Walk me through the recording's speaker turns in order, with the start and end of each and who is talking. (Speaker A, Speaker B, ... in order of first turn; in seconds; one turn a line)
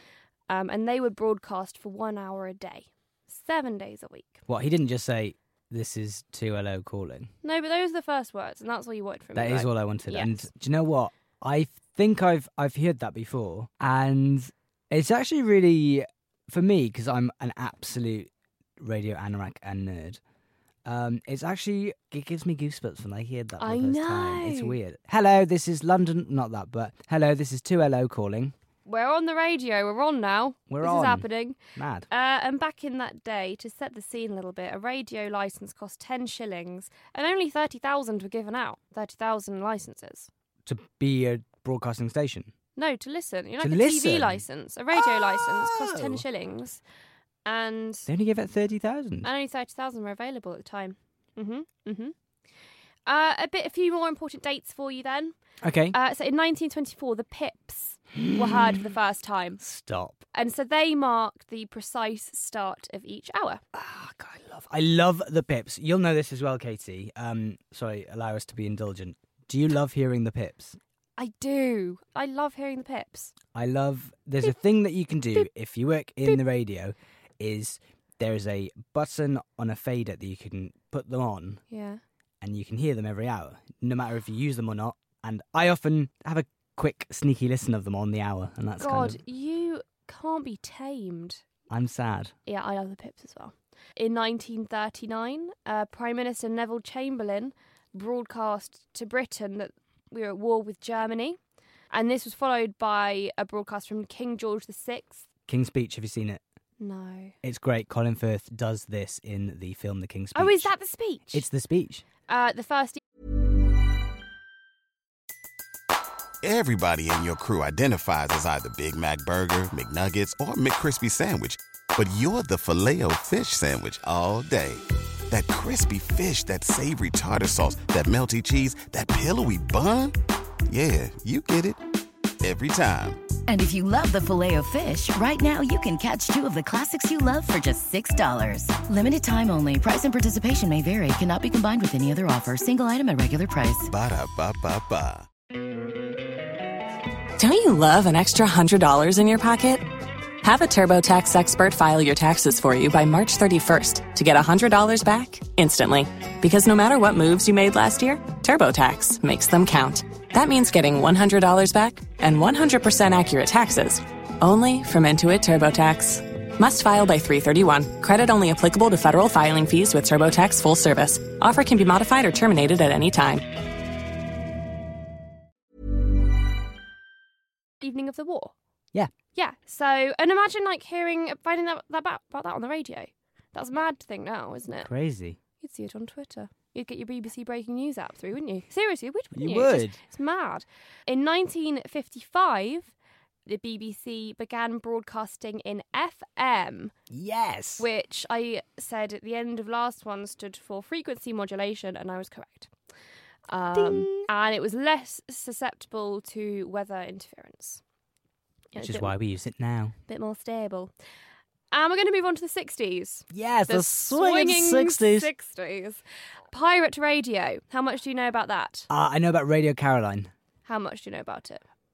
Speaker A: 0.5-4.4
Speaker B: 4.5-7.3
Speaker A: 7.4-10.5
Speaker B: 9.3-20.2
Speaker B: 20.8-28.5
Speaker A: 23.6-24.8
Speaker A: 28.9-31.6
Speaker B: 30.7-32.1
Speaker A: 32.1-40.3
Speaker B: 40.6-42.5
Speaker A: 42.8-46.8
Speaker B: 43.6-46.2
Speaker A: 47.4-48.1
Speaker B: 48.0-49.3
Speaker A: 49.2-52.1
Speaker A: 53.0-55.3
Speaker B: 55.6-56.0
Speaker A: 55.9-59.6
Speaker B: 58.1-58.9
Speaker B: 59.6-60.2
Speaker A: 60.3-63.6
Speaker B: 63.7-70.8
Speaker A: 71.2-73.3
Speaker B: 73.5-81.6
Speaker A: 81.7-82.0
Speaker B: 82.4-89.2
Speaker A: 88.8-91.4
Speaker B: 91.7-92.3
Speaker A: 92.5-101.4
Speaker A: 101.9-105.2
Speaker B: 105.5-106.4
Speaker A: 106.8-107.3
Speaker B: 107.4-110.7
Speaker A: 110.3-111.4
Speaker B: 111.3-112.0
Speaker A: 112.3-113.0
Speaker C: 116.4-130.2
Speaker C: 130.7-131.8
Speaker C: 132.4-133.2
Speaker D: 133.5-143.9
Speaker C: 143.9-145.3
Speaker E: 147.4-149.9
Speaker E: 150.4-173.4
Speaker A: 177.8-178.5
Speaker A: 179.3-184.9
Speaker B: 184.8-185.4
Speaker A: 185.6-192.9
Speaker B: 189.3-190.0
Speaker A: 193.4-196.9
Speaker B: 197.1-197.9
Speaker A: 197.8-202.7
Speaker A: 203.5-207.8
Speaker B: 203.7-204.3
Speaker A: 208.7-209.1
Speaker B: 208.8-209.9
Speaker A: 210.1-210.9
Speaker A: 211.7-216.0
Speaker B: 213.3-215.3
Speaker A: 216.5-218.9
Speaker B: 218.9-220.3
Speaker A: 220.6-221.6